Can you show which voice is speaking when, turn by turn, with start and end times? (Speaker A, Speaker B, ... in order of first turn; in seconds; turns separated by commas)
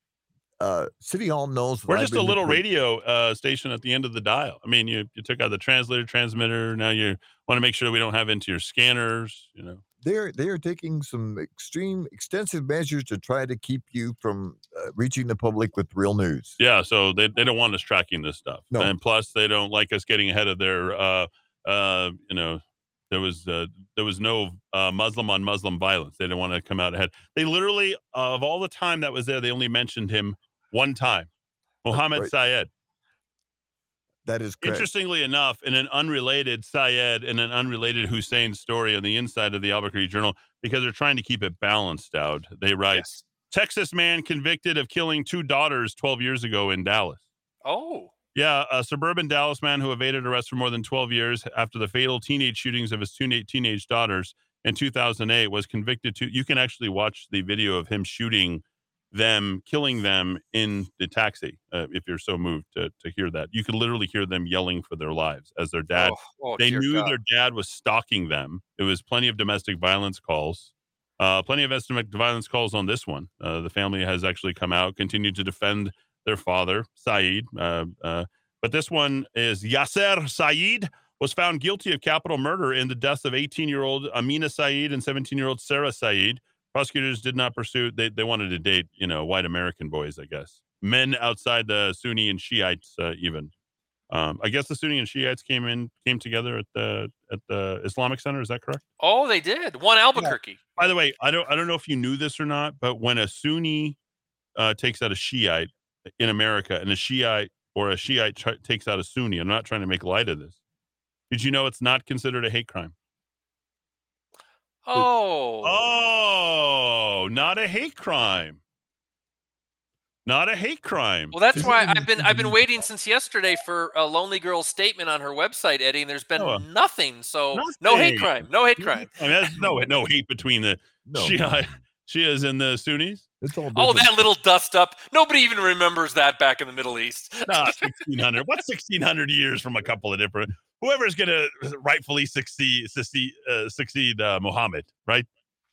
Speaker A: 0.6-2.6, Speaker B: 1.9-9.8, Speaker A: 10.0-16.6, Speaker B: 16.6-31.3, Speaker B: 31.8-32.7, Speaker A: 31.9-32.3, Speaker A: 34.2-34.9, Speaker B: 34.6-47.2, Speaker C: 42.9-43.2, Speaker C: 47.6-48.1, Speaker B: 48.3-93.5, Speaker C: 65.9-67.2, Speaker B: 94.1-98.8, Speaker C: 99.0-100.6, Speaker B: 100.2-104.0, Speaker B: 104.5-110.6, Speaker B: 111.3-112.9, Speaker C: 114.8-115.8, Speaker B: 115.6-118.6, Speaker B: 120.2-122.0, Speaker C: 121.3-129.4, Speaker A: 121.5-122.5, Speaker B: 126.4-126.6, Speaker B: 127.5-133.2, Speaker A: 131.0-131.8, Speaker A: 133.4-134.2, Speaker C: 133.7-137.9, Speaker B: 137.4-145.3